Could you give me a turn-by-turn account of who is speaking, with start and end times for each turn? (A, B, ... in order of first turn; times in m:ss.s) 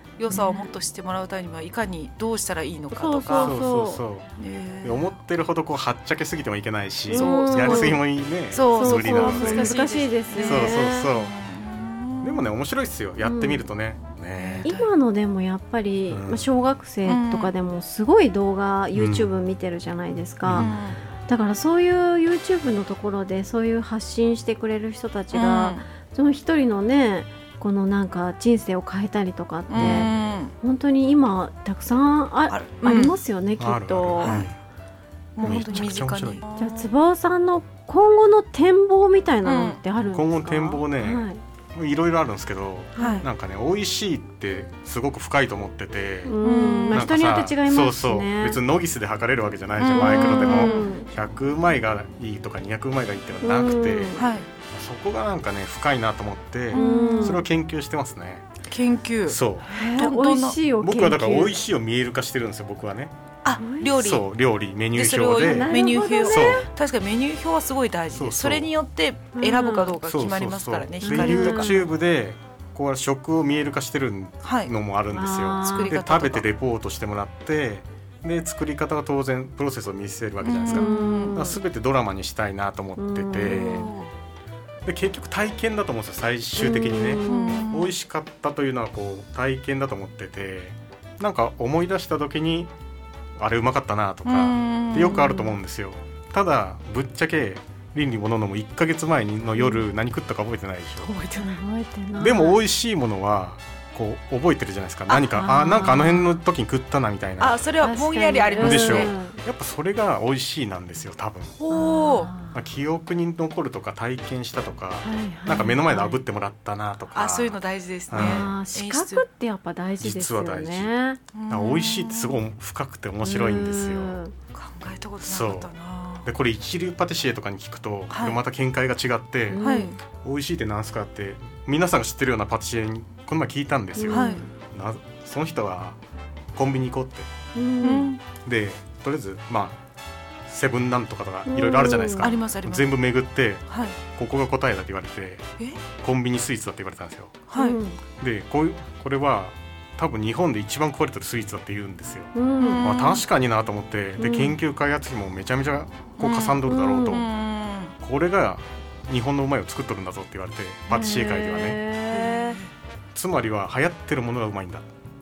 0:00.2-0:03.5 A
0:00.3-0:00.7 B
0:02.9-0:04.0 B
0:03.4-0:04.3 C
0:04.4-0:05.1 A
0:04.8-0:09.8 C
0:07.1-0:08.0 B
0:07.1-0:12.5 A
0:08.7-0:11.1 B
0:10.4-0:11.3 C
0:12.2-0:14.7 C
0:13.2-0:13.7 B
0:14.4-0:14.9 A
0:14.6-0:20.7 B
0:16.1-0:16.5 C
0:17.1-0:17.5 A
0:18.9-0:19.3 C
0:20.4-0:20.8 C
0:20.6-0:21.0 A
0:21.3-0:30.1 B
0:25.3-0:25.8 A
0:29.7-0:30.5 A
0:29.8-0:30.1 C
0:30.6-0:34.4 B
0:32.5-0:33.2 A
0:33.6-0:34.6 C
0:34.2-0:34.5 A
0:35.4-0:36.9 A
0:35.4-0:35.8 B
0:35.4-0:36.4 C
0:36.6-0:41.4 B
0:39.4-0:39.8 A
0:40.1-0:46.4 C
0:43.0-0:43.2 B
0:43.0-0:43.3 A
0:46.2-0:48.6 B
0:46.4-0:47.0 A
0:46.9-0:54.2 C
0:49.8-0:50.9 A
0:49.9-0:51.1 B
0:53.4-0:54.2 B
0:54.2-0:54.5 A
0:54.7-0:58.5 C
0:56.7-0:57.4 A
0:56.7-0:57.4 B
0:58.7-1:00.6 A
0:59.3-0:59.7 C
0:59.7-1:01.6 B
1:00.8-1:03.2 C
1:03.4-1:04.2 A
1:03.6-1:03.9 B
1:04.0-1:06.7 C
1:05.0-1:11.7 A
1:05.4-1:06.7 B
1:08.1-1:08.7 C
1:09.4-1:09.9 B
1:10.0-1:23.9 C
1:11.0-1:11.9 B
1:14.4-1:14.7 A
1:15.1-1:15.9 B
1:15.6-1:16.5 A
1:20.4-1:21.4 A
1:20.7-1:21.6 B
1:23.0-1:23.9 B
1:23.5-1:24.1 A
1:24.8-1:32.7 C
1:26.6-1:27.7 B
1:27.3-1:27.9 A
1:33.4-1:41.1 C
1:34.2-1:35.4 A
1:35.1-1:35.5 B
1:39.6-1:39.8 B
1:41.0-1:41.5 A
1:41.4-1:42.6 B
1:42.2-1:47.7 C
1:45.1-1:46.4 B
1:47.4-1:49.1 A
1:47.8-1:49.4 B
1:48.6-1:51.6 C
1:51.6-1:52.3 A
1:51.7-1:52.6 B
1:52.5-1:57.6 C
1:55.0-1:56.2 B
1:57.1-1:59.3 A
1:58.1-1:58.5 C
1:58.1-2:01.2 B
2:00.0-2:00.9 C
2:01.3-2:02.4 A
2:01.5-2:04.2 C
2:03.2-2:04.3 B
2:04.5-2:06.3 A
2:05.2-2:16.0 C
2:08.1-2:08.4 A
2:09.5-2:10.0 B
2:09.6-2:09.9 A
2:14.0-2:14.5 B
2:14.1-2:14.4 A
2:16.5-2:17.3 C
2:17.6-2:18.1 B
2:17.8-2:18.2 A
2:18.4-2:19.8 C
2:20.5-2:27.4 C
2:21.5-2:22.3 B
2:22.2-2:23.0 A
2:23.7-2:24.0 A
2:27.5-2:27.8 A
2:27.6-2:28.0 B
2:28.2-2:37.3 C
2:32.3-2:32.8 B
2:32.6-2:33.2 A
2:34.2-2:34.6 B
2:36.2-2:37.9 A
2:36.7-2:37.2 B
2:38.0-2:41.8 C
2:40.9-2:42.6 B
2:42.1-2:42.7 A
2:43.1-2:44.9 C